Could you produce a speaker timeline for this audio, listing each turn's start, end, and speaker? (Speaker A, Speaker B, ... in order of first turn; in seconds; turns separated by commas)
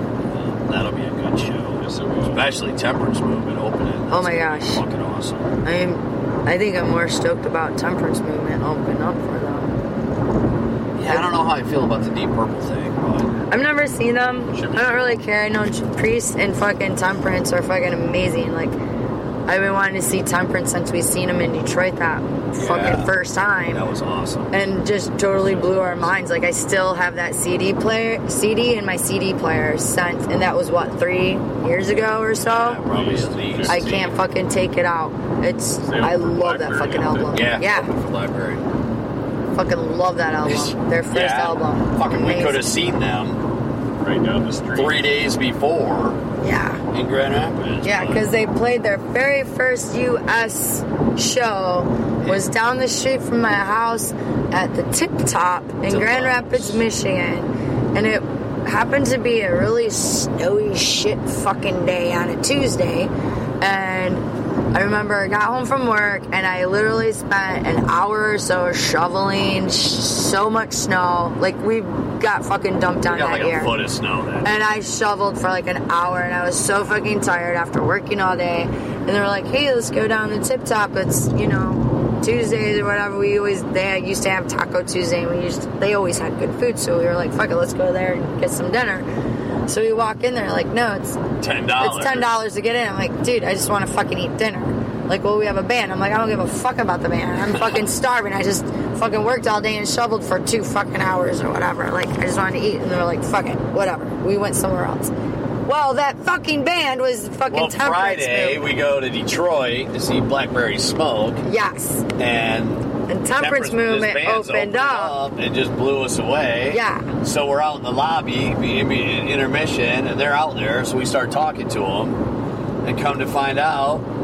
Speaker A: 0.3-5.5, Speaker B: 2.0-2.5, Speaker C: 4.1-4.8, Speaker C: 5.6-9.8, Speaker A: 11.0-13.4, Speaker C: 11.1-11.3, Speaker C: 13.5-18.8, Speaker B: 14.5-15.2, Speaker C: 19.5-23.8, Speaker A: 22.6-23.1, Speaker A: 23.7-24.5, Speaker C: 24.5-32.8, Speaker B: 25.3-26.1, Speaker A: 32.4-34.1, Speaker B: 32.8-34.1, Speaker C: 33.7-37.9, Speaker B: 35.8-37.5, Speaker A: 37.3-38.6, Speaker C: 39.5-42.7, Speaker A: 40.5-43.4, Speaker B: 44.0-45.1, Speaker A: 44.7-46.2, Speaker C: 46.4-46.8, Speaker A: 46.9-48.3, Speaker C: 47.8-73.8, Speaker A: 52.2-52.5, Speaker A: 55.9-56.8, Speaker A: 73.0-74.5, Speaker C: 74.4-89.1, Speaker C: 89.7-105.1, Speaker A: 91.4-92.3, Speaker A: 97.5-97.9, Speaker C: 105.7-108.7, Speaker A: 107.5-111.4, Speaker C: 111.4-112.1, Speaker A: 112.2-122.2, Speaker C: 113.1-115.2, Speaker C: 116.7-117.1, Speaker A: 122.8-124.1